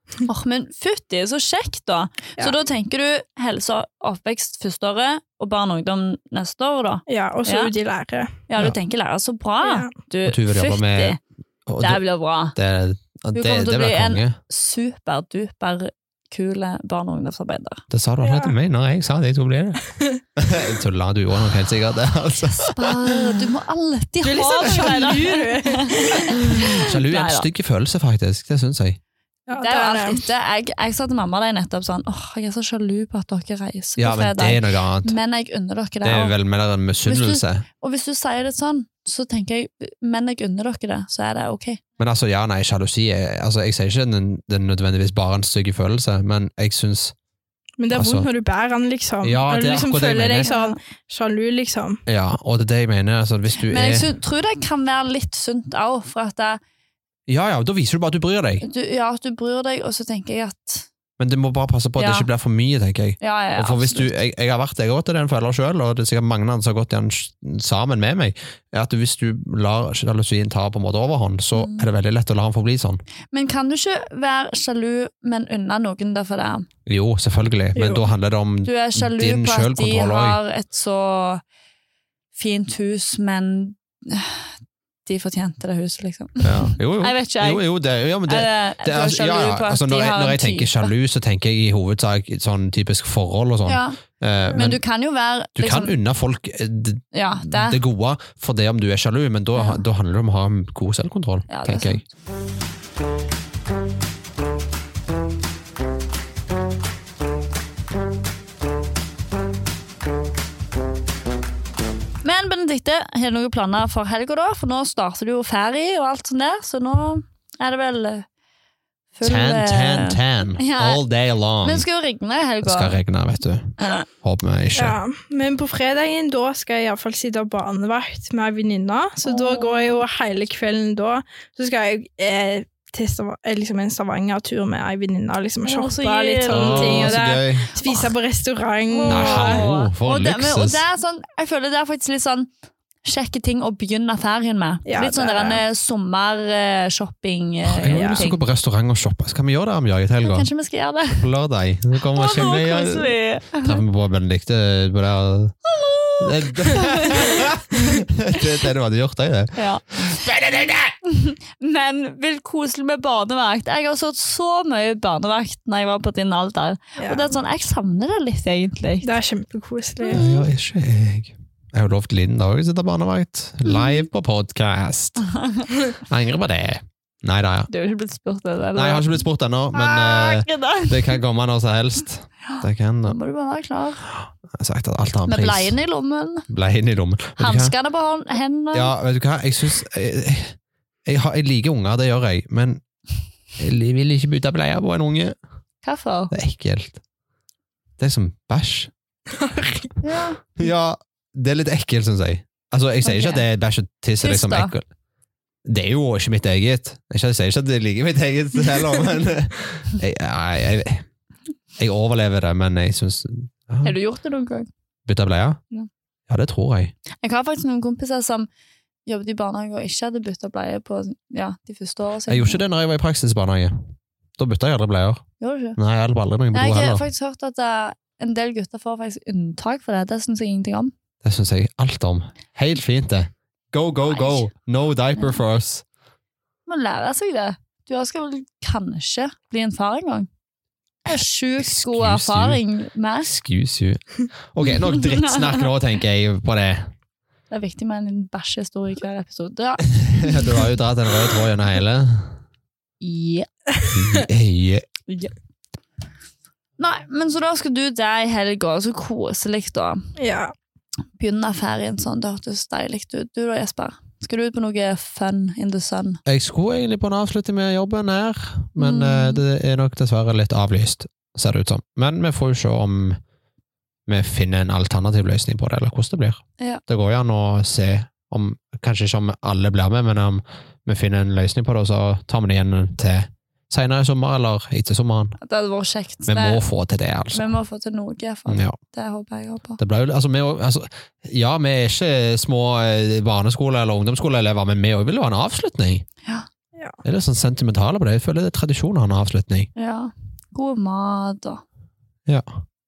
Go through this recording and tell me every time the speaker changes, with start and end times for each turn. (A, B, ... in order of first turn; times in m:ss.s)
0:00.2-0:07.7 A
0:07.1-0:08.4 B
0:08.5-0:11.2 A
0:09.6-0:09.9 B
0:10.2-0:12.0 C
0:11.8-0:12.6 A
0:12.5-0:14.4 C
0:13.4-0:17.8 A
0:17.9-0:19.8 C
0:18.2-0:18.5 B
0:20.4-0:23.4 C
0:22.5-0:27.5 A
0:24.2-0:26.4 B
0:26.4-0:29.0 C
0:29.5-0:30.2 B
0:29.6-0:36.4 A
0:34.0-0:35.1 C
0:36.0-0:37.6 C
0:37.0-0:41.8 A
0:42.0-0:47.1 C
0:47.8-0:52.0 B
0:47.9-0:48.2 C
0:49.2-0:50.5 C
0:50.4-0:50.8 A
0:52.1-0:54.1 C
0:53.6-0:56.6 A
0:57.3-0:58.6 C
0:58.6-1:00.9 A
1:01.2-1:13.0 C
1:02.0-1:02.3 A
1:03.2-1:04.1 A
1:11.5-1:11.9 A
1:13.3-1:16.7 A
1:16.9-1:20.4 C
1:17.7-1:18.1 B
1:18.6-1:21.4 A
1:22.4-1:24.4 A
1:25.0-1:27.7 A
1:26.4-1:34.8 C
1:28.3-1:30.9 A
1:33.6-1:35.9 A
1:35.6-1:42.0 C
1:37.1-1:37.8 A
1:39.6-1:39.8 A
1:41.5-1:42.0 A
1:52.2-1:58.3 A
1:59.1-2:01.0 A
1:59.2-2:01.8 C
2:01.6-2:03.0 A
2:02.6-2:05.0 C
2:03.8-2:04.1 A
2:04.7-2:19.6 B
2:09.3-2:10.0 A
2:15.6-2:17.2 A
2:16.5-2:17.7 C
2:18.9-2:22.5 A
2:19.1-2:20.8 C
2:23.0-2:28.4 A
2:24.9-2:25.6 B
2:27.6-2:30.5 C
2:27.9-2:28.2 B
2:30.2-2:31.2 A
2:31.1-2:35.6 C
2:32.1-2:33.8 A
2:35.6-2:38.4 A
2:36.2-2:40.9 C
2:39.6-2:40.2 A
2:41.0-2:49.1 A
2:47.0-2:47.3 B
2:49.0-2:50.2 B
2:50.0-2:50.4 A
2:50.1-2:55.2 C
2:53.6-2:54.0 A
2:55.2-2:55.7 A
2:56.0-2:57.7 C
2:57.7-3:01.2 A
2:58.8-3:03.2 C
3:02.5-3:04.0 A
3:04.1-3:05.7 C
3:05.2-3:06.4 A
3:06.5-3:07.7 C
3:07.4-3:08.9 A
3:08.7-3:12.8 C
3:13.6-3:15.4 C
3:15.8-3:16.3 A
3:16.3-3:17.0 C
3:18.0-3:18.9 C
3:19.3-3:19.9 B
3:20.0-3:20.4 A
3:20.6-3:24.8 C
3:23.0-3:23.4 A
3:24.2-3:24.7 A
3:25.6-3:31.0 C
3:31.8-3:33.9 C
3:33.8-3:34.7 A
3:35.0-3:35.6 C
3:36.3-3:36.9 C
3:37.2-3:38.5 A
3:39.0-3:42.6 A
3:42.3-3:43.8 C
3:44.4-3:45.2 C
3:45.4-3:45.8 A
3:45.8-3:47.0 C
3:46.5-3:50.9 A
3:51.2-3:55.8 C
3:54.1-3:54.4 A
3:56.7-4:00.3 A
4:01.0-4:03.3 A
4:01.6-4:02.6 C
4:03.2-4:06.9 C
4:04.7-4:05.5 A
4:07.5-4:10.6 A
4:09.9-4:12.4 C
4:13.0-4:13.5 A
4:13.9-4:14.8 C
4:16.8-4:20.0 A
4:20.2-4:20.5 B
4:21.2-4:26.2 A
4:26.2-4:33.2 C
4:28.8-4:29.4 A
4:34.1-4:45.4 C
4:45.4-4:46.6 A
4:46.3-4:47.5 C
4:47.3-4:49.8 A
4:48.5-4:48.8 C
4:49.8-4:56.0 C
4:57.0-4:59.7 C
4:59.8-5:01.6 A
5:02.3-5:02.6 C